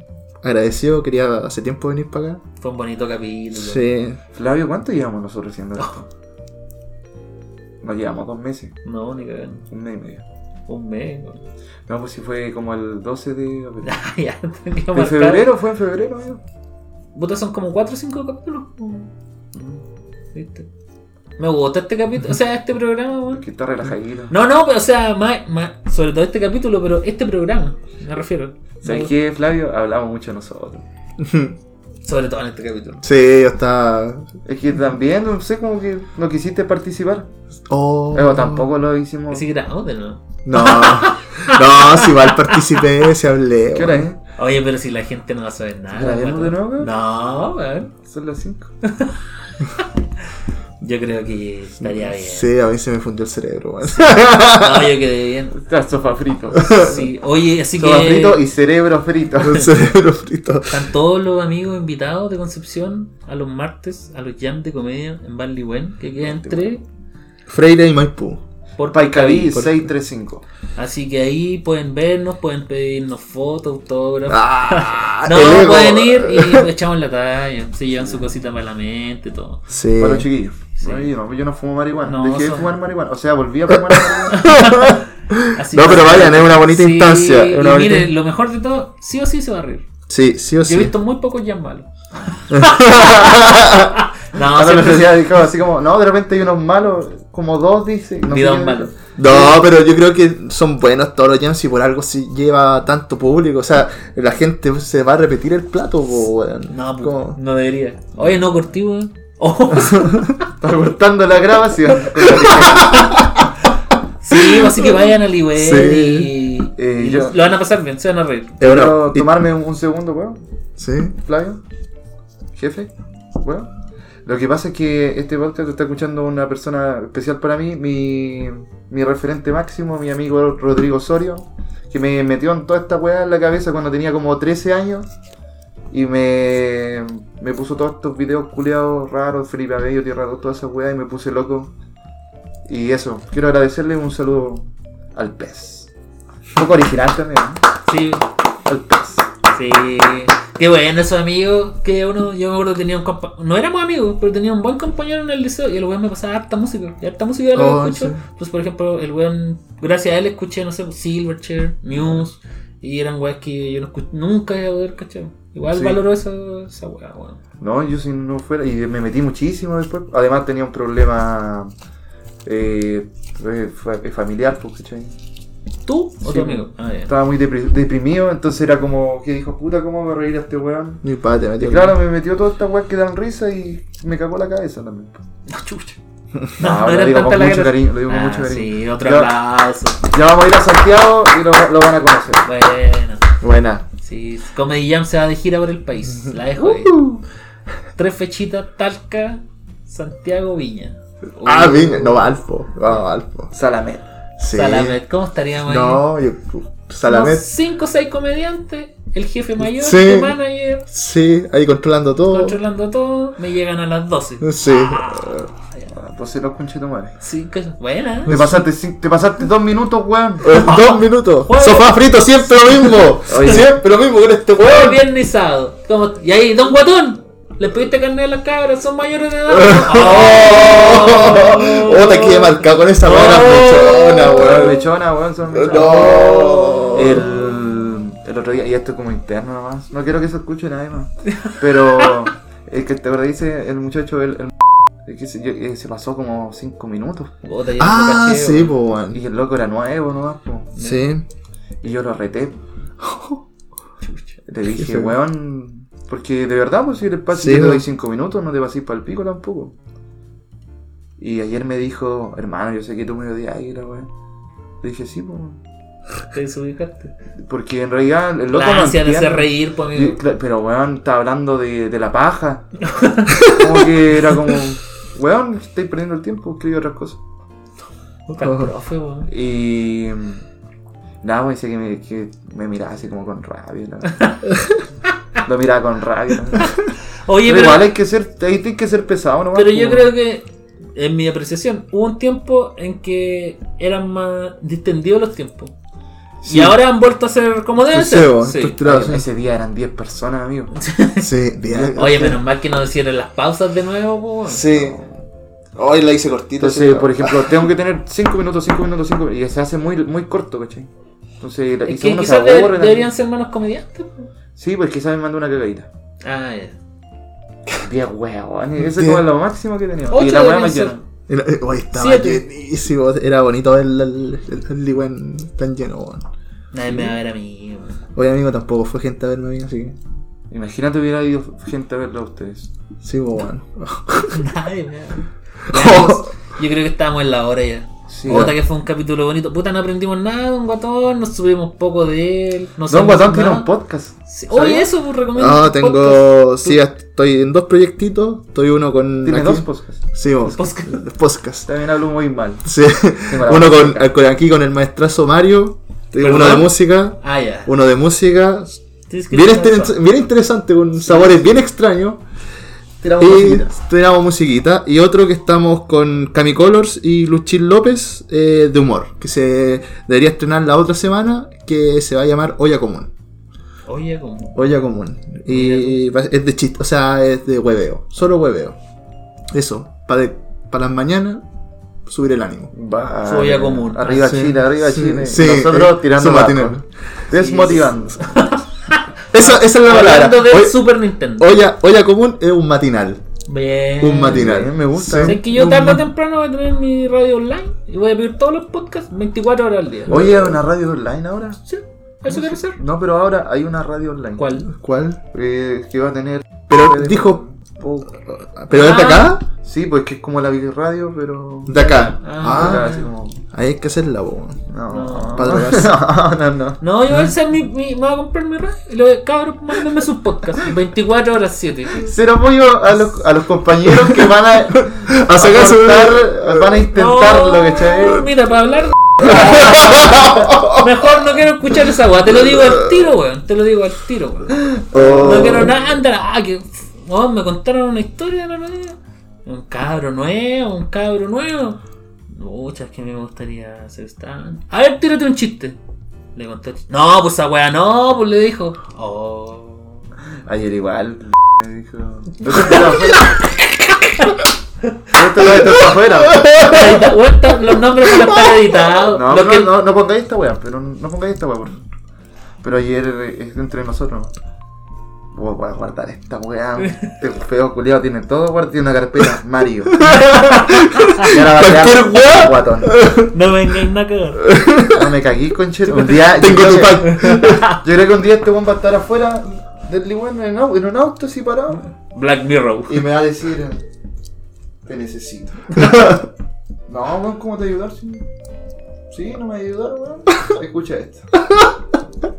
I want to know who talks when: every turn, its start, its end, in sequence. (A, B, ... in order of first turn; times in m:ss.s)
0:00.4-0:02.4 A
0:02.6-0:03.8 B
0:03.5-0:04.2 A
0:04.3-0:06.1 C
0:07.8-0:08.8 C
0:08.8-0:09.6 B
0:09.7-0:10.2 C
0:10.7-0:11.4 B
0:11.9-0:13.9 C
0:13.8-0:15.4 B
0:14.9-0:16.4 C
0:17.1-0:19.1 B
0:19.5-0:19.8 C
0:20.3-0:20.7 B
0:21.4-0:23.4 B
0:23.3-0:24.3 C
0:24.3-0:29.1 B
0:28.8-0:30.8 C
0:31.2-0:31.6 A
0:32.0-0:33.0 B
0:33.0-0:34.3 A
0:34.4-0:37.3 C
0:37.7-0:38.7 A
0:38.1-0:39.4 C
0:39.3-0:42.8 B
0:40.4-0:44.1 A
0:43.7-0:44.2 C
0:44.4-0:47.9 B
0:45.9-0:46.9 C
0:48.0-0:48.7 C
0:48.8-0:49.1 B
0:50.8-0:52.5 B
0:51.8-0:54.9 A
0:53.9-0:55.6 B
0:55.5-0:57.1 C
0:56.6-0:56.9 A
0:56.8-0:58.4 B
0:57.8-0:59.7 C
0:59.4-1:00.9 A
1:00.7-1:06.8 B
1:06.3-1:06.7 C
1:07.5-1:08.4 A
1:08.8-1:09.6 B
1:08.9-1:10.4 C
1:09.5-1:09.8 A
1:10.8-1:19.6 B
1:14.3-1:16.7 A
1:19.7-1:20.3 A
1:20.0-1:24.6 C
1:20.8-1:21.1 B
1:22.0-1:22.7 B
1:23.9-1:28.1 A
1:24.3-1:25.0 B
1:25.5-1:29.8 B
1:25.8-1:26.5 C
1:30.1-1:30.9 A
1:30.6-1:35.3 B
1:32.5-1:34.0 A
1:34.5-1:39.5 C
1:38.3-1:39.4 B
1:39.2-1:47.4 A
1:46.7-1:50.4 B
1:49.8-1:50.3 A
1:50.6-1:53.2 C
1:52.2-1:53.5 A
1:54.2-1:58.6 B
1:54.3-1:54.9 A
1:55.5-1:56.3 A
1:56.8-1:57.5 C
1:58.6-1:59.3 A
1:58.6-2:00.4 C
2:00.8-2:01.1 A
2:01.2-2:01.6 C
2:02.6-2:02.9 C
2:03.4-2:03.7 C
2:04.2-2:15.1 C
2:15.9-2:21.7 C
2:22.7-2:25.9 C
2:26.5-2:27.6 C
2:27.8-2:28.2 B
2:28.6-2:29.3 C
2:29.5-2:47.4 B
2:37.5-2:38.2 A
2:47.6-2:51.7 C
2:52.4-2:55.1 C
2:55.8-2:57.1 B
2:56.2-3:01.0 C
3:01.0-3:02.0 A
3:01.6-3:05.2 C
3:05.5-3:06.0 B
3:06.6-3:09.3 C
3:06.6-3:10.0 B
3:10.0-3:12.4 C
3:12.4-3:13.3 B
3:13.4-3:13.8 A
3:14.0-3:17.0 B
3:16.2-3:17.2 A
3:18.0-3:22.3 B
3:21.4-3:23.5 A
3:23.5-3:24.0 C
3:24.4-3:25.0 A
3:24.5-3:26.0 B
3:25.6-3:27.4 A
3:27.0-3:30.9 B
3:29.6-3:30.4 A
3:30.9-3:32.6 A
3:32.3-3:35.9 B
3:34.4-3:35.5 A
3:35.9-3:37.1 C
3:37.2-3:38.3 B
3:38.3-3:38.6 A
3:38.3-3:40.5 C
3:40.4-3:45.0 A
3:40.5-3:42.2 B
3:43.3-3:43.8 C
3:44.5-3:54.7 B
3:49.5-3:54.8 A
3:53.1-3:53.7 C
3:54.3-4:07.3 C
3:55.5-3:57.2 A
3:55.7-3:57.0 B
4:01.3-4:02.1 B
4:07.4-4:08.8 B
4:07.8-4:09.2 A
4:09.1-4:10.7 C
4:10.8-4:11.1 B
4:10.8-4:11.2 A
4:11.8-4:12.6 C
4:13.0-4:13.4 A
4:14.0-4:14.4 B
4:14.5-4:19.7 C
4:14.7-4:15.2 A
4:17.3-4:17.8 A
4:21.2-4:24.1 C
4:24.8-4:25.6 C
4:26.3-4:27.1 B
4:27.4-4:32.8 C
4:28.5-4:30.2 B
4:32.8-4:33.4 B
4:33.4-4:37.2 C
4:38.3-4:39.3 B
4:38.4-4:38.7 A
4:39.3-4:40.4 C
4:41.2-4:44.2 C
4:45.4-4:46.8 C
4:47.2-4:47.9 B
4:47.4-4:50.1 C
4:49.5-4:55.7 B
4:56.4-4:56.8 A
4:56.4-4:58.8 B
4:57.8-4:59.3 A
4:58.8-5:00.7 C
5:00.7-5:01.3 B
5:01.2-5:02.4 A
5:01.7-5:02.0 C
5:01.9-5:04.8 B
5:04.5-5:05.0 A
5:04.7-5:05.1 C
5:05.8-5:07.6 A
5:06.6-5:13.1 C
5:11.9-5:14.3 B
5:14.6-5:15.9 C
5:16.2-5:16.8 B
5:17.8-5:21.0 C
5:18.8-5:19.2 A
5:20.1-5:20.9 B
5:21.3-5:26.2 A
5:21.9-5:22.4 B
5:26.7-5:28.0 B
5:26.9-5:27.1 A
5:28.1-5:30.0 A
5:30.5-5:32.7 C
5:33.0-5:34.4 A
5:34.3-5:43.7 B
5:35.7-5:36.3 A
5:38.1-5:38.5 C
5:38.2-5:38.6 A
5:42.9-5:44.9 C
5:44.3-5:46.8 B
5:45.3-5:51.7 A
5:49.2-5:50.0 C
5:50.4-5:51.0 B
5:51.6-5:52.6 C
5:52.6-6:02.2 A
5:53.3-5:54.1 C
5:56.2-5:57.7 B
5:59.1-6:00.0 B
6:03.0-6:03.6 C
6:03.2-6:13.1 A
6:13.9-6:14.7 B
6:14.5-6:18.8 A
6:15.5-6:16.0 B
6:19.5-6:21.4 A
6:22.0-6:22.7 A
6:22.7-6:28.2 C
6:23.2-6:24.4 B
6:24.1-6:26.8 A
6:27.3-6:31.6 B
6:29.3-6:33.2 A
6:33.5-6:34.6 B
6:34.0-6:36.0 A
6:34.2-6:35.4 C
6:35.2-6:40.2 B
6:40.1-6:40.6 A
6:40.1-6:41.6 C
6:41.7-6:42.8 B
6:42.3-6:44.5 C
6:44.4-6:44.7 B
6:44.7-6:45.2 A
6:45.3-6:48.1 C
6:46.7-6:47.4 A
6:48.2-6:49.4 A
6:48.7-6:49.4 B
6:49.6-6:51.8 C
6:51.6-6:52.9 A
6:51.7-6:53.0 B
6:52.4-6:53.4 C
6:53.5-6:54.6 A
6:54.7-6:56.8 C
6:54.9-6:55.6 B
6:55.4-6:56.0 A
6:56.8-7:02.1 B
7:02.0-7:08.3 C
7:04.7-7:06.8 A
7:06.9-7:21.8 B
7:09.2-7:10.8 A
7:12.4-7:12.7 A
7:14.9-7:15.8 A
7:14.9-7:15.6 C
7:22.3-7:25.8 B
7:26.3-7:30.1 B
7:30.4-7:33.4 C
7:32.4-7:33.4 B
7:34.2-7:35.0 B
7:35.1-7:36.7 C
7:36.4-7:36.8 A
7:36.6-7:39.7 B
7:39.1-7:41.8 C
7:42.6-7:44.3 C
7:45.3-7:50.2 C
7:50.0-7:53.3 A
7:50.1-7:50.7 B
7:51.2-7:52.9 C
7:53.3-7:54.4 B
7:54.4-7:55.1 A
7:54.9-8:01.9 C
7:56.0-7:56.4 B
7:56.0-7:57.7 A
7:57.0-7:57.8 B
8:02.1-8:03.0 B
8:02.9-8:03.8 C
8:04.8-8:06.0 C
8:05.8-8:06.2 A
8:06.9-8:08.2 C
8:09.1-8:11.3 C